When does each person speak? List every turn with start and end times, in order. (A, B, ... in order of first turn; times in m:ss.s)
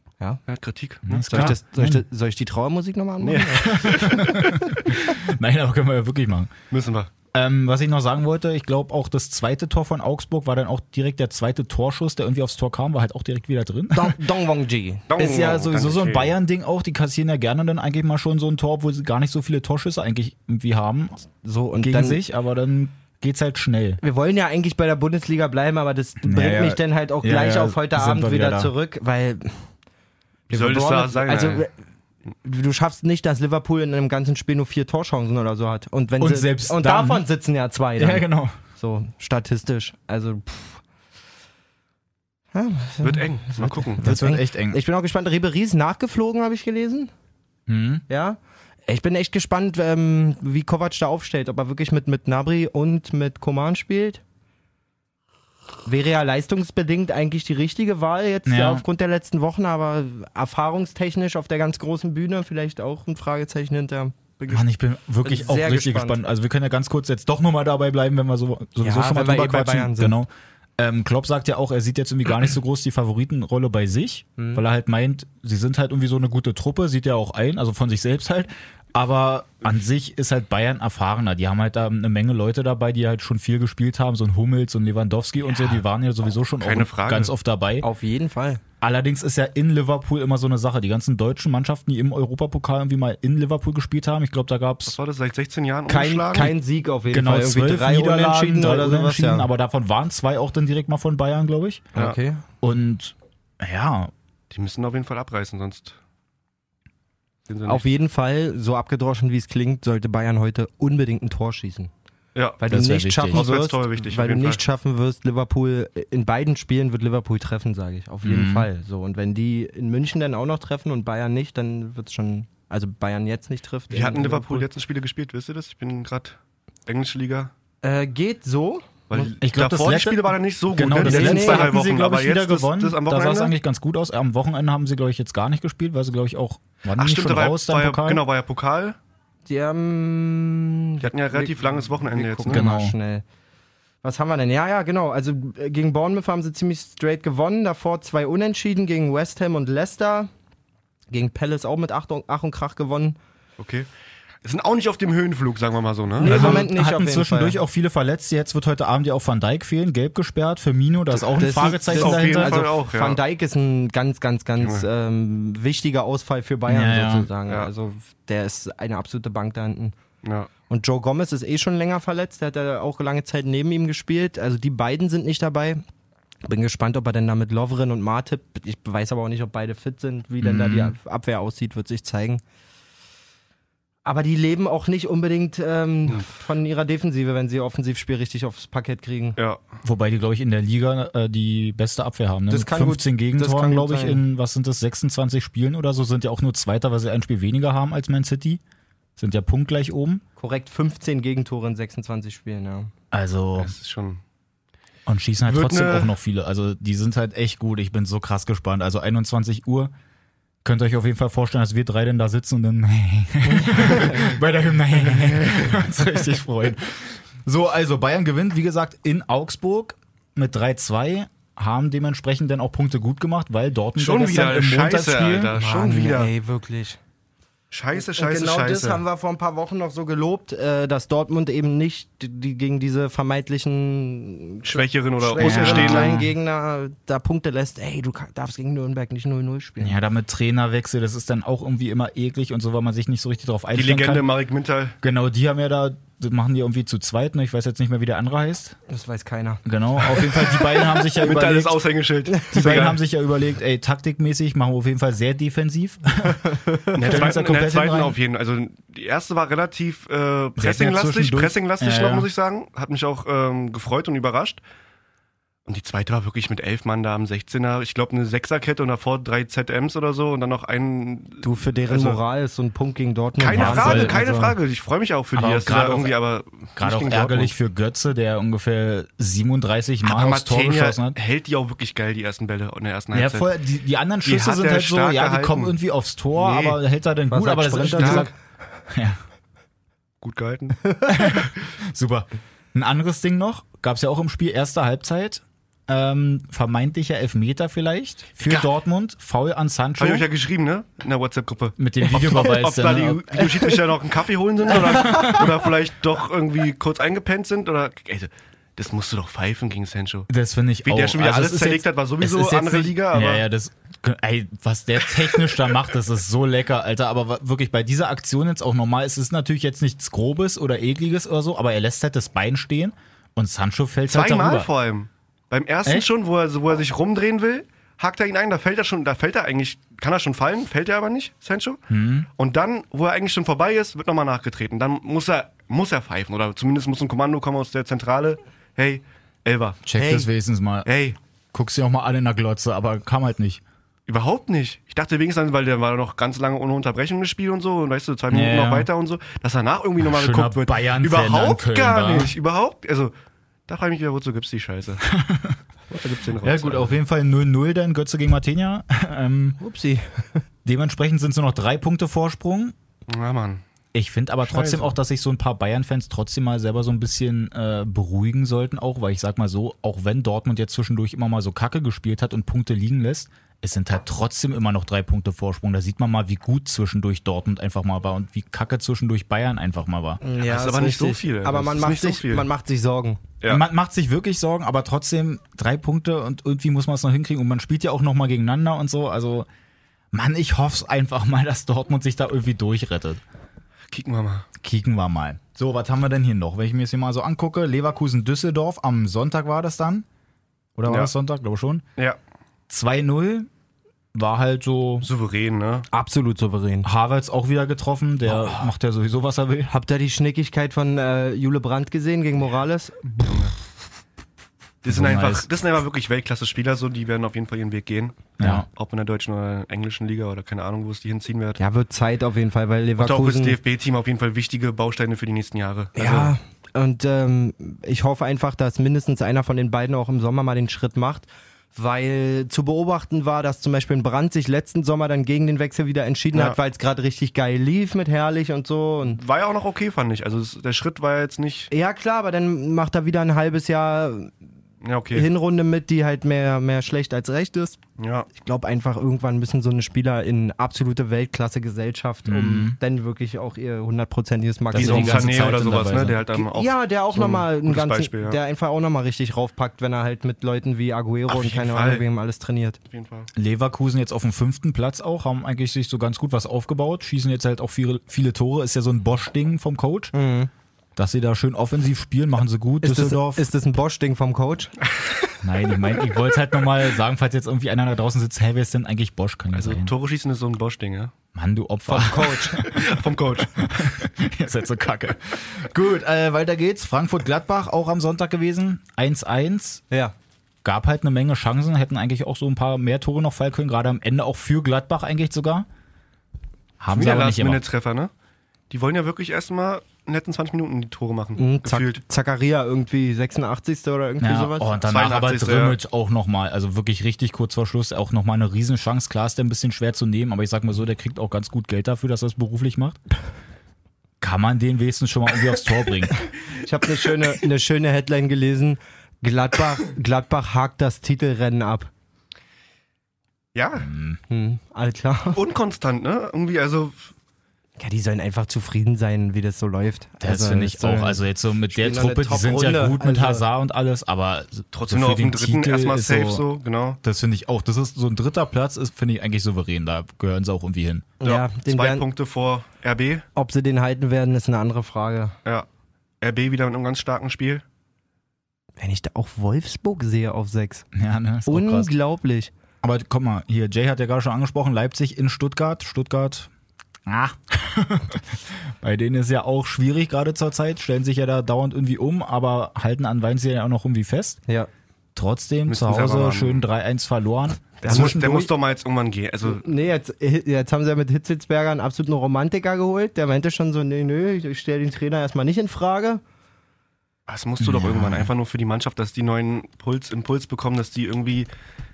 0:00.5-0:01.6 A
0:01.1-0:02.0 B
0:01.3-0:04.0 C
0:03.2-0:04.4 A
0:03.7-0:06.5 B
0:06.7-0:07.1 A
0:07.3-0:14.2 B
0:13.9-0:15.1 C
0:15.1-0:16.4 A
0:15.2-0:21.3 B
0:21.4-0:22.2 C
0:21.8-0:24.0 B
0:24.0-0:29.7 C
0:26.2-0:28.7 B
0:30.5-0:31.7 A
0:30.5-0:31.7 C
0:32.4-0:40.8 C
0:36.2-0:37.2 B
0:38.0-0:38.6 B
0:42.5-0:47.1 C
0:43.0-0:44.1 A
0:44.0-0:44.8 B
0:47.7-0:48.0 B
0:48.1-0:54.2 C
0:55.8-1:04.6 C
0:58.5-0:58.8 B
1:04.5-1:27.9 B
1:05.2-1:06.2 C
1:08.8-1:10.2 C
1:14.4-1:14.6 C
1:26.6-1:27.3 A
1:27.8-1:28.6 C
1:28.8-1:35.0 B
1:34.9-1:36.6 A
1:35.9-1:39.5 C
1:37.1-1:41.9 B
1:41.9-1:42.4 C
1:42.6-1:44.1 B
1:44.5-1:46.0 A
1:47.5-1:47.8 A
1:47.7-1:51.9 C
1:52.4-1:52.6 A
1:52.6-2:04.7 C
1:52.7-1:53.5 B
1:53.3-1:54.6 A
1:58.2-1:58.7 B
2:03.9-2:07.5 A
2:07.8-2:09.3 C
2:09.1-2:13.5 A
2:09.4-2:18.2 B
2:11.0-2:11.9 C
2:17.0-2:19.0 A
2:19.5-2:23.2 C
2:21.0-2:22.7 A
2:22.5-2:22.9 B
2:24.0-2:30.3 C
2:31.1-2:33.2 C
2:33.6-2:33.9 A
2:34.4-2:36.7 A
2:36.2-2:37.6 C
2:36.2-2:42.6 B
2:41.2-2:50.0 C
2:41.9-2:43.2 A
2:44.6-2:44.9 A
2:46.7-2:47.3 B
2:50.2-2:50.5 A
2:50.7-2:55.8 C
2:56.4-3:02.4 C
3:00.4-3:00.9 B
3:04.0-3:09.4 C
3:09.8-3:18.6 B
3:12.5-3:14.2 C
3:19.2-3:20.2 B
3:20.4-3:22.9 C
3:23.1-3:23.7 B
3:23.6-3:24.2 A
3:25.1-3:29.9 B
3:25.5-3:26.1 A
3:30.6-3:45.5 B
3:33.8-3:34.2 C
3:44.0-3:46.3 A
3:45.5-3:47.0 C
3:47.7-3:49.0 A
3:47.9-4:00.0 C
3:54.6-3:56.2 A
3:55.4-3:56.3 B
3:59.8-4:04.3 B
4:03.8-4:05.0 A
4:05.0-4:08.8 B
4:08.9-4:11.0 C
4:09.6-4:11.8 B
4:11.2-4:13.0 A
4:12.3-4:12.8 C
4:12.5-4:16.4 B
4:16.4-4:17.3 C
4:17.0-4:24.6 A
4:17.0-4:18.2 B
4:20.6-4:22.3 B
4:25.6-4:32.2 A
4:31.4-4:34.6 C
4:33.4-4:37.5 A
4:33.5-4:34.4 B
4:35.4-4:36.1 B
4:36.8-4:41.2 B
4:40.0-4:43.6 A
4:43.1-4:48.3 B
4:44.2-4:45.8 A
4:46.4-4:46.8 A
4:47.3-4:48.3 C
4:47.9-4:48.3 A
4:48.9-4:49.2 B
4:50.2-4:51.0 A
4:51.1-5:00.3 B
4:58.4-4:58.7 A
5:00.0-5:10.3 A
5:01.8-5:03.4 B
5:05.1-5:05.4 B
5:10.3-5:24.7 B
5:10.8-5:13.4 A
5:24.1-5:31.8 A
5:31.9-5:32.3 B
5:32.4-5:40.3 A
5:39.8-5:40.9 B
5:40.8-5:41.2 A
5:41.5-5:43.6 B
5:44.1-5:53.1 A
5:48.3-5:48.9 B
5:50.0-5:52.3 B
5:53.7-5:55.0 A
5:55.1-5:55.6 B
5:55.9-5:57.0 A
5:56.4-5:59.6 B
5:59.6-6:00.4 C
6:00.6-6:02.8 B
6:03.1-6:03.6 A
6:03.9-6:20.2 B
6:04.5-6:05.0 A
6:20.2-6:23.2 C
6:20.4-6:22.5 A
6:23.5-6:29.5 B
6:30.1-6:33.2 B
6:33.9-6:34.5 A
6:34.6-6:40.0 B
6:40.8-6:41.8 B
6:40.9-6:41.1 A
6:42.7-6:43.5 B
6:44.1-6:45.1 B
6:45.0-6:45.9 A
6:45.9-6:46.9 C
6:46.8-6:49.7 B
6:49.7-6:53.5 C
6:54.8-7:01.6 A
6:54.9-6:55.5 B
6:58.4-6:58.6 B
7:01.6-7:03.6 C
7:03.0-7:06.3 A
7:06.0-7:19.2 C
7:19.1-7:21.7 A
7:21.7-7:24.3 C
7:24.8-7:25.3 A
7:25.1-7:27.8 C
7:28.0-7:28.3 A
7:28.3-7:35.4 C
7:32.2-7:32.8 B
7:34.7-7:36.2 B
7:34.8-7:38.4 A
7:36.3-7:42.8 C
7:41.3-7:42.0 A
7:42.9-7:43.3 A
7:43.4-7:50.1 B
7:50.1-7:50.5 C
7:51.0-7:53.5 B
7:52.8-7:54.7 C
7:55.4-7:59.9 B
7:59.6-8:01.1 A
8:01.3-8:02.8 B
8:01.9-8:02.6 C
8:02.6-8:03.5 A
8:03.6-8:09.8 B
8:10.6-8:15.7 B
8:16.8-8:17.6 B
8:16.9-8:18.1 A
8:18.7-8:22.0 A
8:21.4-8:24.8 C
8:24.2-8:33.0 B
8:24.8-8:25.8 A
8:34.2-8:36.2 B
8:36.5-8:41.9 C
8:43.6-8:43.9 A
8:43.8-8:44.2 B
8:44.3-8:45.4 C
8:45.3-8:47.1 A
8:47.8-8:53.4 C
8:50.2-8:56.4 B
8:54.7-8:57.0 A
8:57.0-9:01.1 B
9:01.2-9:02.1 C
9:01.2-9:03.2 A
9:03.4-9:05.4 C
9:06.2-9:07.6 A
9:08.8-9:10.9 C
9:10.9-9:11.9 B
9:11.5-9:12.5 C
9:12.8-9:16.5 B
9:17.1-9:18.2 B
9:18.8-9:24.4 B
9:25.1-9:28.5 B
9:25.7-9:26.6 A
9:27.8-9:28.2 C
9:27.8-9:29.7 A
9:29.4-9:36.2 C
9:37.3-9:41.5 A
9:37.6-9:38.3 B